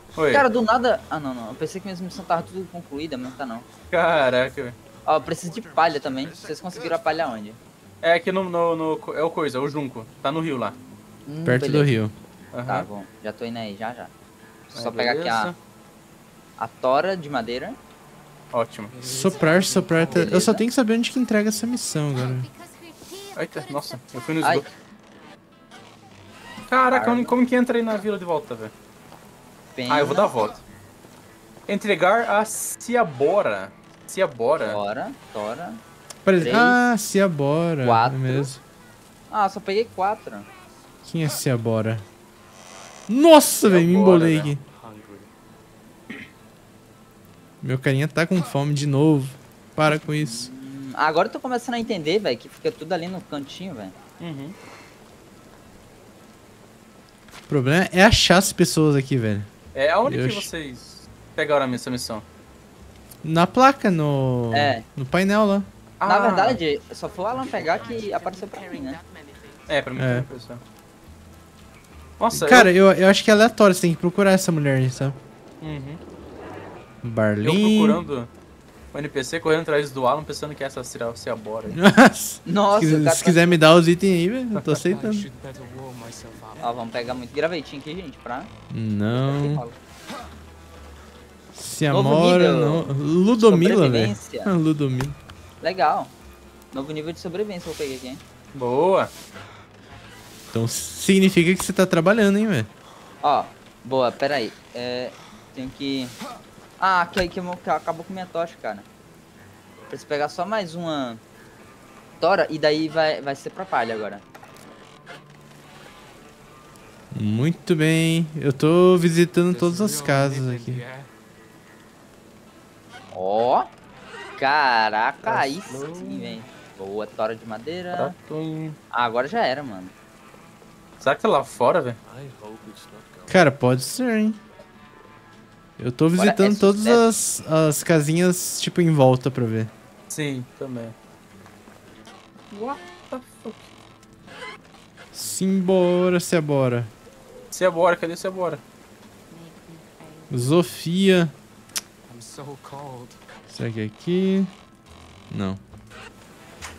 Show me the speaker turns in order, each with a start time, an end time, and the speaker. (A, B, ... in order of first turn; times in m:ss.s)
0:00.2-0:00.5 A
0:00.3-0:03.7 B
0:03.9-0:04.8 A
0:05.0-0:07.6 B
0:05.3-0:07.2 C
0:08.0-0:10.8 A
0:11.3-0:11.9 B
0:11.4-0:12.1 D
0:12.5-0:12.9 A
0:12.7-0:14.1 B
0:14.7-0:15.5 B
0:14.7-0:15.6 A
0:16.6-0:17.8 B
0:18.5-0:18.9 A
0:18.9-0:20.5 C
0:19.0-0:22.5 D
0:20.0-0:20.6 B
0:23.4-0:24.7 A
0:26.7-0:28.7 A
0:26.9-0:27.4 B
0:29.8-0:30.3 B
0:29.9-0:30.6 A
0:31.7-0:34.8 A
0:34.6-0:35.8 B
0:36.2-0:38.6 D
0:36.4-0:36.8 B
0:37.8-0:38.5 B
0:39.3-0:40.5 B
0:41.0-0:42.0 D
0:43.1-0:44.6 D
0:43.6-0:44.5 A
0:44.7-0:45.3 C
0:47.6-0:50.5 D
0:49.9-0:54.0 B
0:54.2-0:54.6 A
0:57.5-0:59.5 D
0:59.8-1:02.2 A
1:00.0-1:00.5 D
1:03.2-1:05.7 D
1:04.5-1:04.8 B
1:06.0-1:06.6 A
1:06.1-1:09.0 B
1:07.2-1:09.8 C
1:09.7-1:10.6 A
1:10.0-1:10.3 D
1:12.2-1:12.7 A
1:12.3-1:15.2 D
1:15.6-1:16.0 A
1:17.0-1:18.0 D
1:17.4-1:18.3 A
1:18.9-1:21.8 A
1:21.7-1:25.3 D
1:22.4-1:23.6 B
1:24.7-1:27.2 C
1:26.6-1:28.5 B
1:28.7-1:29.6 D
1:29.1-1:29.8 B
1:31.6-1:35.2 D
1:31.9-1:34.5 B
1:35.6-1:36.1 B
1:36.7-1:38.2 B
1:38.5-1:39.1 A
1:40.5-1:42.7 D
1:43.2-1:46.2 B
1:46.8-1:48.9 B
1:49.9-1:51.2 B
1:52.2-1:54.2 B
1:57.1-2:00.8 D
1:59.5-2:01.1 C
2:03.1-2:03.7 B
2:04.4-2:08.1 B
2:05.2-2:06.4 A
2:07.9-2:08.8 A
2:08.9-2:09.9 B
2:11.0-2:12.0 A
2:12.1-2:13.4 C
2:13.3-2:14.4 D
2:15.8-2:19.7 D
2:16.2-2:17.0 B
2:20.1-2:20.9 A
2:22.5-2:23.6 A
2:25.1-2:26.9 D
2:27.5-2:28.6 A
2:29.3-2:30.2 C
2:30.3-2:31.3 D
2:32.1-2:33.2 C
2:33.5-2:34.5 D
2:35.3-2:35.6 D